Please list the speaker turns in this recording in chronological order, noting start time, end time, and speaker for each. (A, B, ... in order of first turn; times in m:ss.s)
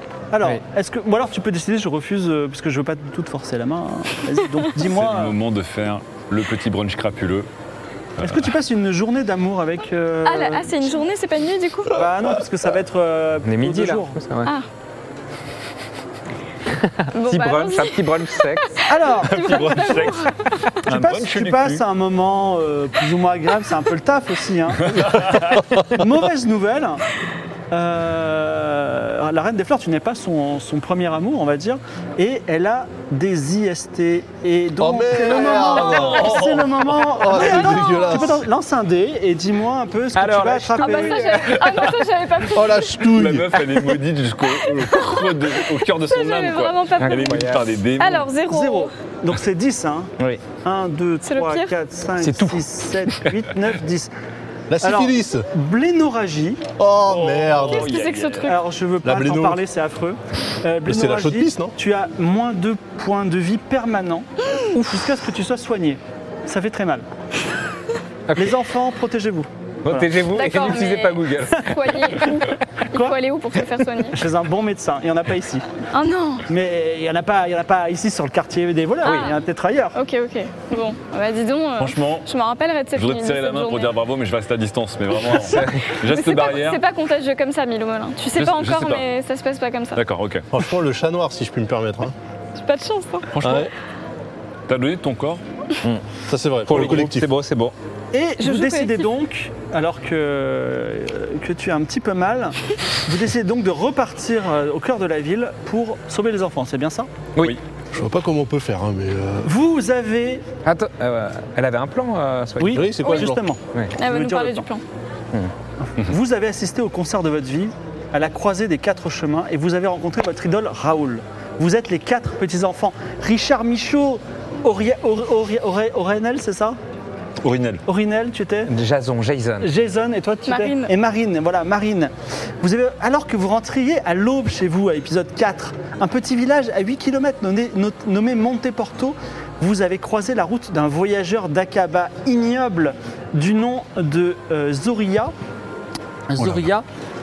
0:00.3-0:05.4 A
0:04.8-0:07.5 B
0:08.2-0:08.5 B
0:08.2-0:10.9 A
0:10.2-0:11.9 C
0:11.9-0:14.2 A
0:13.4-0:14.5 D
0:16.7-0:18.7 D
0:17.1-0:20.7 C
0:18.9-0:19.8 A
0:19.2-0:21.8 B
0:20.9-0:27.0 A
0:24.9-0:25.4 B
0:27.7-0:41.3 A
0:34.8-0:38.4 E
0:35.5-0:36.1 C
0:35.8-0:36.9 B
0:37.4-0:38.3 C
0:40.2-0:41.7 D
0:40.8-0:43.1 C
0:41.5-0:41.9 B
0:42.5-0:43.6 E
0:43.0-0:48.3 B
0:44.6-0:48.9 C
0:47.0-0:47.7 D
0:48.5-0:50.1 A
0:50.6-0:54.1 A
0:51.2-0:51.7 C
0:52.2-0:52.6 D
0:54.7-0:55.5 E
0:54.8-0:56.7 A
0:56.8-0:57.9 E
0:57.0-0:58.5 B
0:57.7-0:58.6 C
0:58.4-1:07.1 A
0:59.0-0:59.6 E
1:00.9-1:01.8 E
1:08.3-1:08.6 D
1:08.4-1:10.2 A
1:09.8-1:12.2 D
1:10.3-1:14.2 C
1:14.1-1:15.6 A
1:15.9-1:16.4 C
1:16.5-1:20.0 A
1:19.0-1:19.4 C
1:19.0-1:19.3 D
1:19.9-1:24.0 C
1:21.8-1:22.3 B
1:23.0-1:26.8 B
1:25.4-1:25.9 D
1:26.0-1:30.0 C
1:28.4-1:29.0 B
1:30.0-1:30.5 B
1:30.5-1:32.1 E
1:32.6-1:33.6 C
1:33.3-1:33.7 B
1:33.4-1:33.7 E
1:34.7-1:35.4 B
1:36.3-1:37.3 E
1:36.6-1:37.7 D
1:38.1-1:47.1 A
1:38.4-1:39.1 C
1:47.9-1:49.5 E
1:49.4-1:50.4 A
1:50.6-1:53.1 D
1:52.6-1:54.7 A
1:52.7-1:53.4 E
1:53.0-1:53.3 C
1:54.0-1:54.8 C
1:56.0-2:06.8 A
2:07.4-2:07.8 B
2:07.9-2:08.7 A
2:08.7-2:09.7 D
2:09.6-2:25.3 A
2:10.5-2:10.9 C
2:26.3-2:26.8 A
2:26.4-2:26.7 B